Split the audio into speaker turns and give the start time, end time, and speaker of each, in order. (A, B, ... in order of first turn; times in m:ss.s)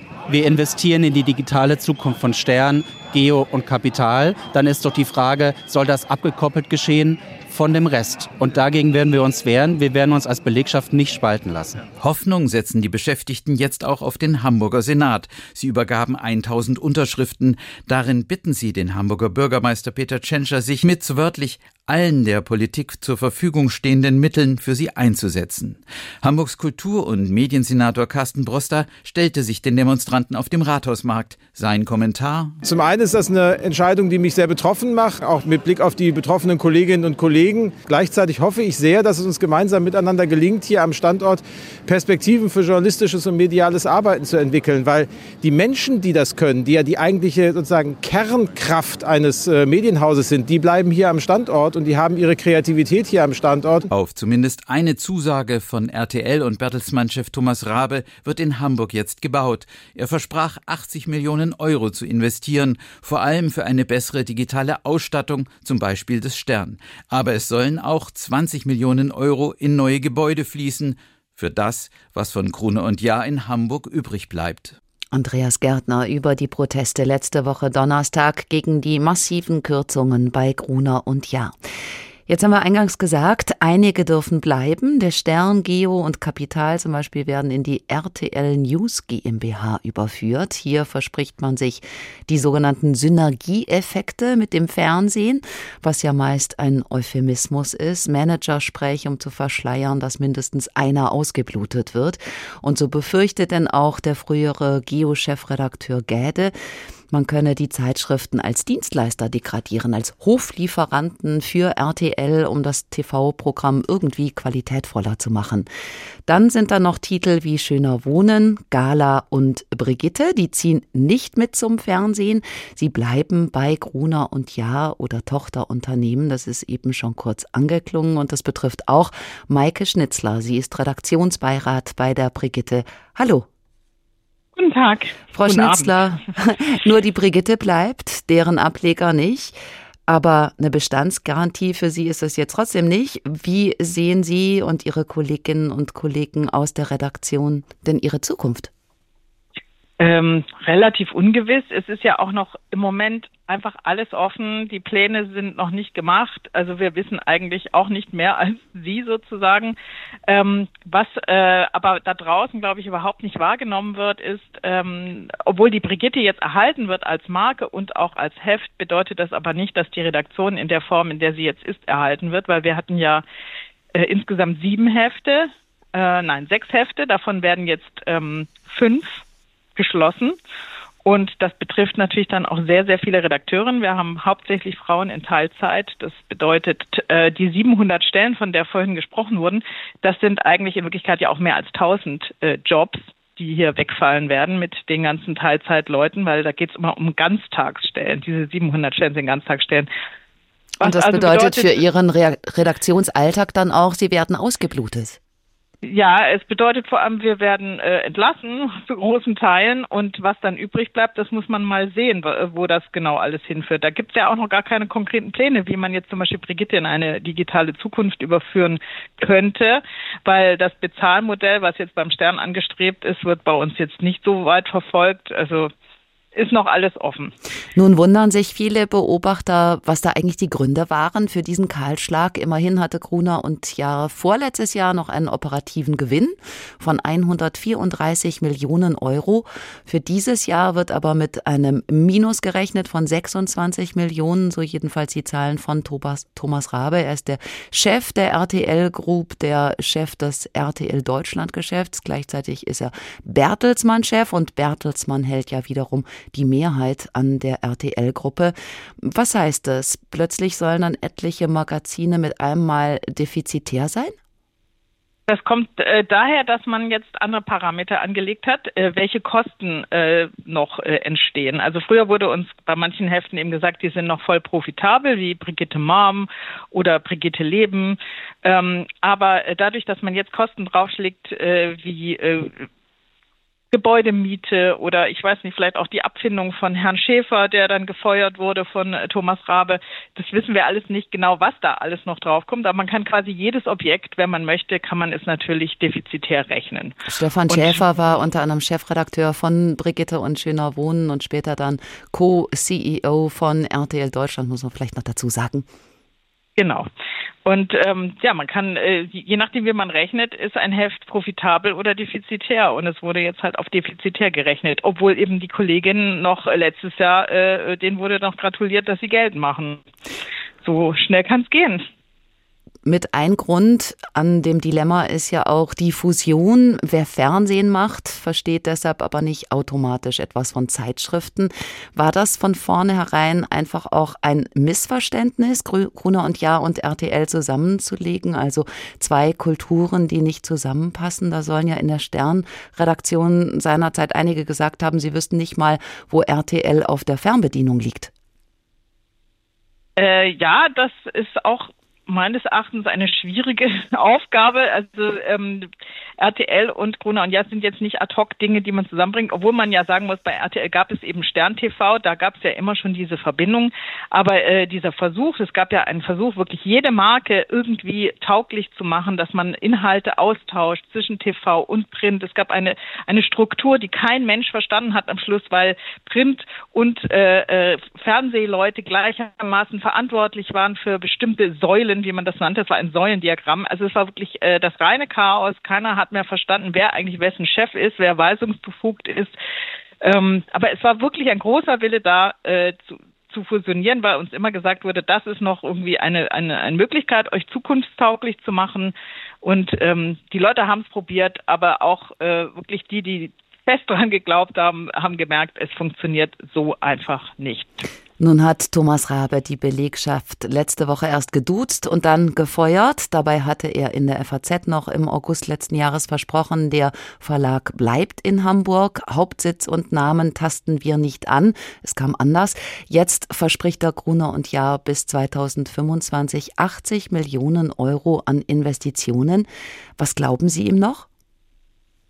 0:00.3-0:11.8 A
0:12.0-0:32.6 B
0:32.6-0:53.9 C
0:53.9-1:14.8 B
1:15.1-1:21.5 D
1:22.3-1:46.5 D
1:47.1-1:55.7 D
1:56.2-2:13.4 D
2:14.6-2:15.9 E
2:15.3-2:19.5 D
2:20.1-2:28.7 D
2:30.0-2:39.8 E
2:40.3-2:53.2 E
2:53.9-2:59.2 E
2:59.8-3:00.4 E
3:01.0-3:19.9 E
3:20.8-3:21.7 E
3:20.8-3:25.2 D
3:25.8-3:45.7 E
3:46.3-3:47.3 E
3:47.8-4:24.1 D
4:25.3-4:42.6 E
4:43.7-4:57.0 E
4:57.1-5:05.6 D
4:57.5-4:57.8 E
5:06.6-5:06.9 E
5:07.4-5:19.8 E
5:20.6-5:21.8 E
5:22.8-5:48.1 D
5:50.0-5:55.7 E
5:56.2-6:29.3 E
6:30.0-6:47.8 E
6:48.2-7:09.5 D
7:10.0-7:11.0 D